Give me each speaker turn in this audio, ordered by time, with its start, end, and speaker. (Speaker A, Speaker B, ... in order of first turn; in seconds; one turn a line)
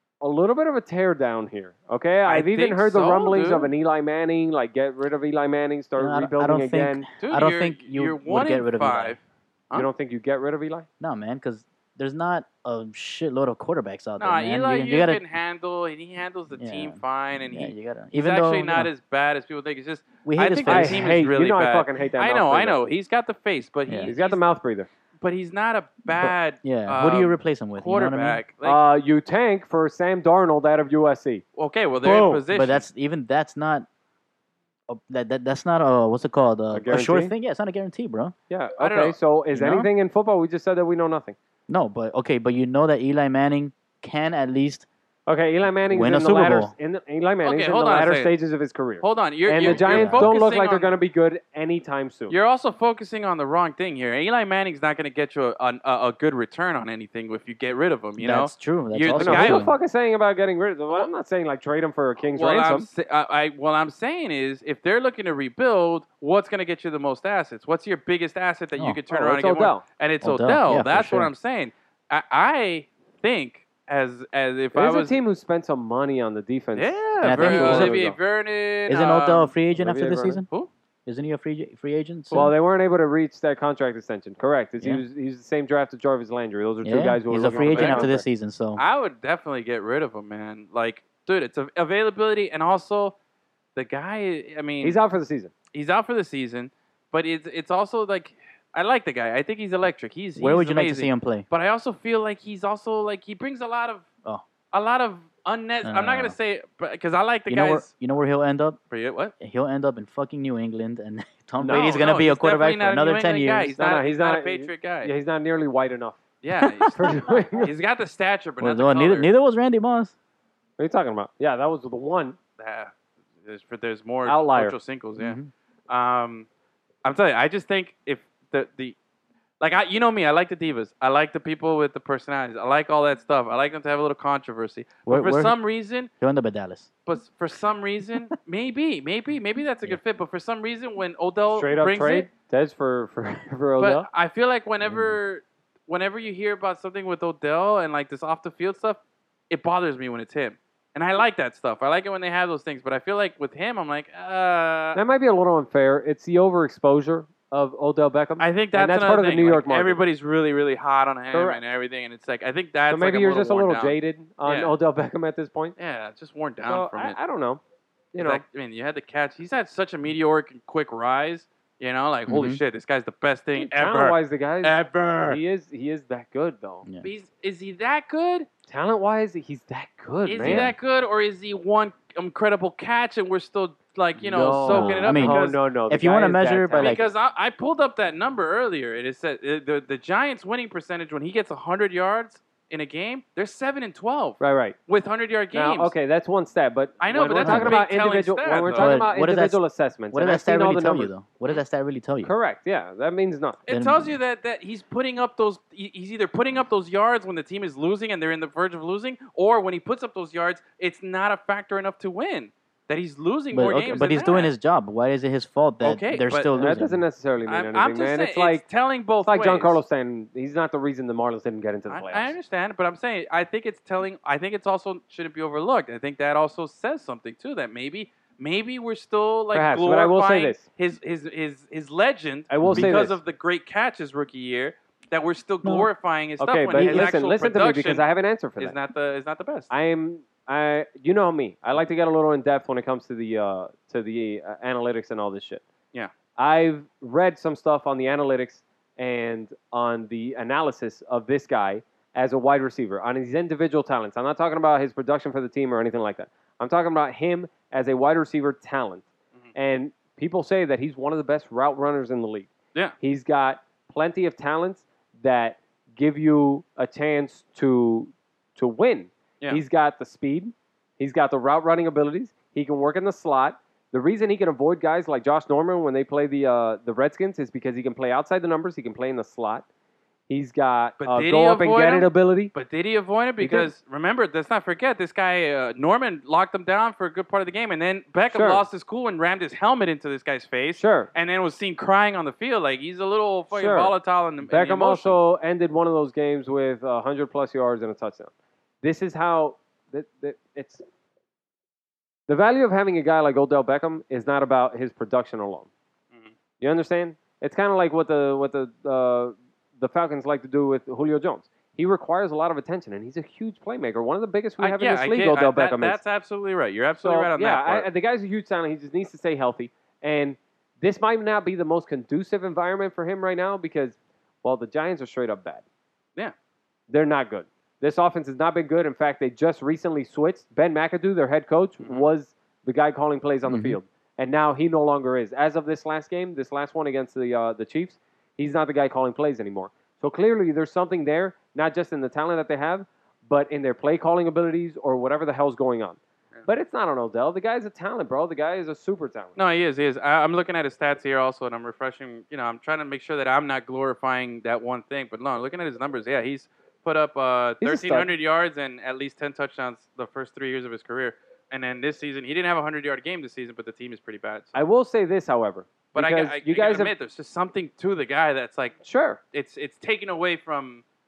Speaker A: 0.2-7.1
Speaker B: 2.2-3.7
Speaker C: 6.0-9.2
Speaker B: 7.2-9.9
Speaker A: 9.7-10.9
Speaker C: 11.0-15.2
Speaker B: 14.2-24.4
Speaker C: 16.6-18.9
Speaker C: 20.2-21.1
Speaker A: 20.7-22.8
Speaker A: 24.1-24.9
Speaker B: 25.2-28.8
Speaker C: 26.1-28.4
Speaker A: 28.6-31.4
Speaker B: 31.6-32.9
Speaker A: 32.0-32.4
Speaker C: 32.5-33.9
Speaker C: 34.9-38.3
Speaker A: 36.7-37.3
Speaker A: 38.5-41.4
Speaker B: 38.8-39.2
Speaker C: 39.5-39.9
Speaker C: 41.7-44.9
Speaker A: 45.3-52.3
Speaker C: 45.8-46.7
Speaker B: 47.4-48.3
Speaker B: 49.0-50.9
Speaker C: 49.6-50.3
Speaker B: 52.3-59.7
Speaker C: 58.2-59.7
Speaker A: 59.1-62.9
Speaker B: 62.3-75.2
Speaker A: 69.1-69.8
Speaker C: 70.2-71.3
Speaker A: 74.7-78.2
Speaker B: 76.8-79.5
Speaker C: 77.2-78.0
Speaker C: 78.9-80.5
Speaker A: 79.7-80.4
Speaker C: 81.0-82.5
Speaker A: 82.3-88.3
Speaker C: 86.8-88.8
Speaker B: 87.5-88.1
Speaker B: 88.8-93.2
Speaker B: 93.8-95.0
Speaker A: 94.8-95.5
Speaker B: 95.7-104.0
Speaker C: 100.4-101.5
Speaker B: 104.7-107.9
Speaker C: 105.8-106.4
Speaker C: 107.5-108.8
Speaker B: 108.9-109.3
Speaker C: 109.4-113.8
Speaker A: 111.6-112.0
Speaker B: 111.7-115.1
Speaker A: 113.8-116.2
Speaker B: 116.4-119.3
Speaker C: 116.6-116.9
Speaker A: 116.9-117.7
Speaker C: 118.6-120.1
Speaker A: 120.8-122.4
Speaker B: 122.6-126.5
Speaker A: 124.3-124.7
Speaker C: 125.2-125.5
Speaker B: 127.0-128.9
Speaker B: 129.6-136.1
Speaker C: 135.1-135.6
Speaker C: 136.2-136.9
Speaker B: 137.1-142.3
Speaker A: 141.5-144.1
Speaker B: 143.8-155.0
Speaker C: 144.8-145.2
Speaker A: 154.9-160.0
Speaker B: 158.4-164.7
Speaker A: 161.3-161.6
Speaker A: 162.9-165.8
Speaker B: 165.8-167.2
Speaker A: 166.6-167.6
Speaker A: 168.1-168.4
Speaker B: 168.2-175.4
Speaker C: 172.3-172.6
Speaker A: 173.6-176.8
Speaker B: 177.0-178.5
Speaker A: 178.7-180.7
Speaker B: 180.3-185.6
Speaker C: 180.4-180.7
Speaker A: 184.2-187.0
Speaker C: 184.6-187.0
Speaker B: 186.8-195.9
Speaker A: 194.4-194.8
Speaker A: 195.5-201.1
Speaker B: 197.0-198.9
Speaker C: 197.4-197.8
Speaker C: 198.7-199.6
Speaker C: 200.1-202.3
Speaker A: 202.2-203.6
Speaker B: 203.7-214.5
Speaker C: 203.7-204.2
Speaker C: 213.5-217.0
Speaker B: 215.8-216.5
Speaker A: 216.6-218.6
Speaker B: 217.4-219.8
Speaker A: 219.2-222.3
Speaker B: 221.9-238.0
Speaker A: 229.5-230.6
Speaker A: 232.5-233.2
Speaker C: 232.6-232.9
Speaker C: 235.6-235.9
Speaker A: 236.4-238.8
Speaker C: 236.7-237.1
Speaker B: 238.6-239.7
Speaker A: 239.7-245.6
Speaker A: 246.4-279.6
Speaker A: 280.3-282.5
Speaker B: 281.0-295.1
Speaker A: 283.4-283.7
Speaker A: 288.3-288.6
Speaker A: 290.7-291.1
Speaker A: 293.5-298.3
Speaker A: 298.8-300.8
Speaker A: 302.3-305.7
Speaker A: 306.6-316.0
Speaker B: 314.6-317.9
Speaker A: 317.0-325.6
Speaker A: 326.9-349.4
Speaker B: 331.8-332.1
Speaker C: 333.5-333.8
Speaker B: 349.4-364.6
Speaker A: 357.6-358.1
Speaker A: 364.5-366.9
Speaker B: 365.9-368.8
Speaker A: 368.8-369.2
Speaker B: 369.3-370.8